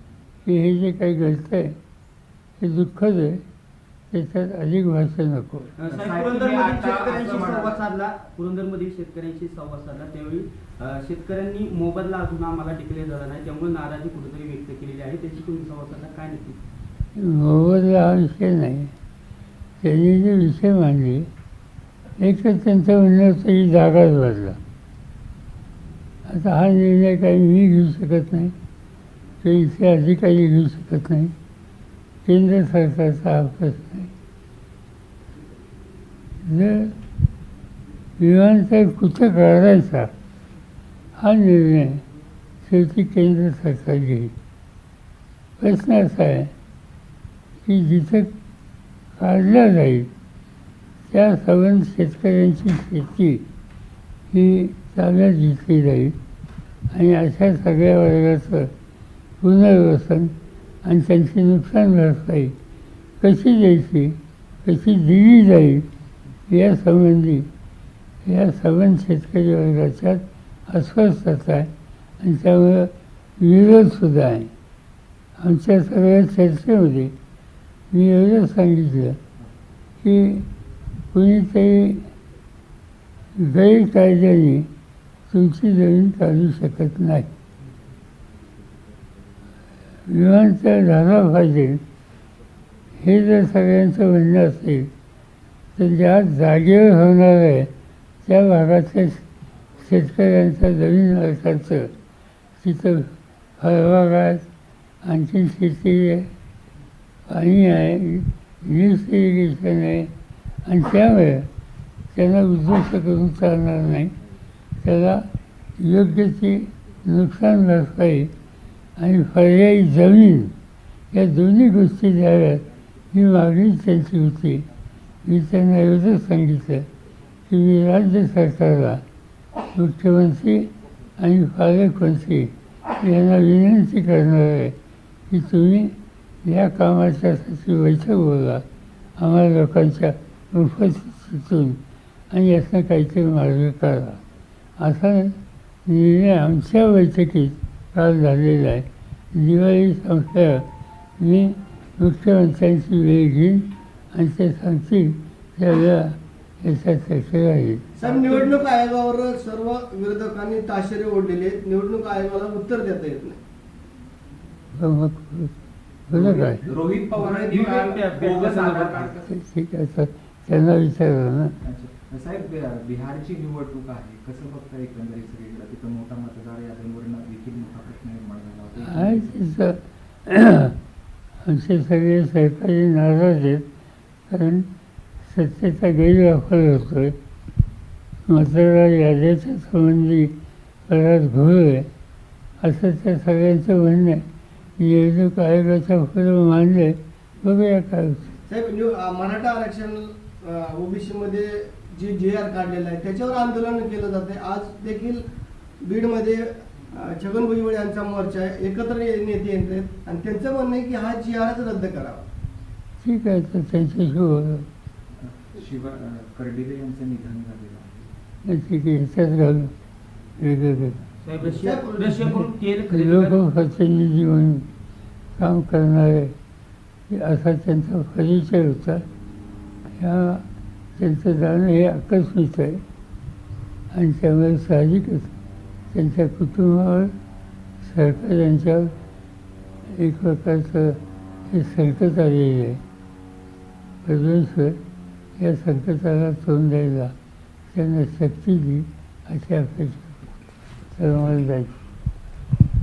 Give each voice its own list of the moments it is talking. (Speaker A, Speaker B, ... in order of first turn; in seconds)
Speaker A: 0.4-1.8, 2.6-3.4, 4.1-5.7, 17.1-18.9, 19.8-21.3, 22.2-24.6, 26.2-28.5, 29.4-31.3, 32.2-34.1, 36.4-37.0, 38.2-40.1, 41.1-42.0, 42.6-44.3, 45.6-46.5, 47.6-48.3, 49.1-50.1, 51.1-53.5, 54.3-56.2, 56.9-58.7, 59.4-62.5, 63.2-65.9, 66.5-67.5, 68.2-74.5, 75.4-77.1, 77.9-79.2, 80.0-80.5, 81.1-82.1, 83.3-84.7, 85.3-87.3, 90.1-91.8, 93.0-94.9, 95.7-97.7, 98.2-99.2, 99.8-101.9, 102.6-104.5, 105.0-106.3, 107.3-110.1, 110.6-111.5, 112.1-114.1, 114.8-118.3, 119.0-120.5, 121.1-124.7, 125.2-126.9, 127.5-129.0, 129.7-134.8, 135.3-138.7, 139.2-144.2, 144.8-150.7, 151.2-157.9, 164.8-165.5, 166.1-166.7, 169.3-171.5, 178.8-180.8, 181.4-183.7, 184.3-184.7, 185.2-187.2, 188.3-190.3, 190.9-191.9, 192.6-194.2, 194.8-198.3, 213.0-214.7, 218.4-219.7, 220.4-221.0, 222.2-224.7, 225.4-226.3, 227.1-229.0, 229.9-232.8, 233.9-235.3, 235.9-237.1, 237.8-238.9, 239.9-242.8, 244.0-244.8, 245.3-247.1, 247.7-250.1, 250.9-251.8
Speaker B: 5.8-16.6, 167.1-169.2, 221.2-223.4
Speaker C: 5.9-7.8, 158.1-158.5, 166.1-169.2, 171.6-179.4, 215.2-218.0
Speaker D: 158.0-163.4, 198.5-205.2, 205.8-212.2, 221.6-222.2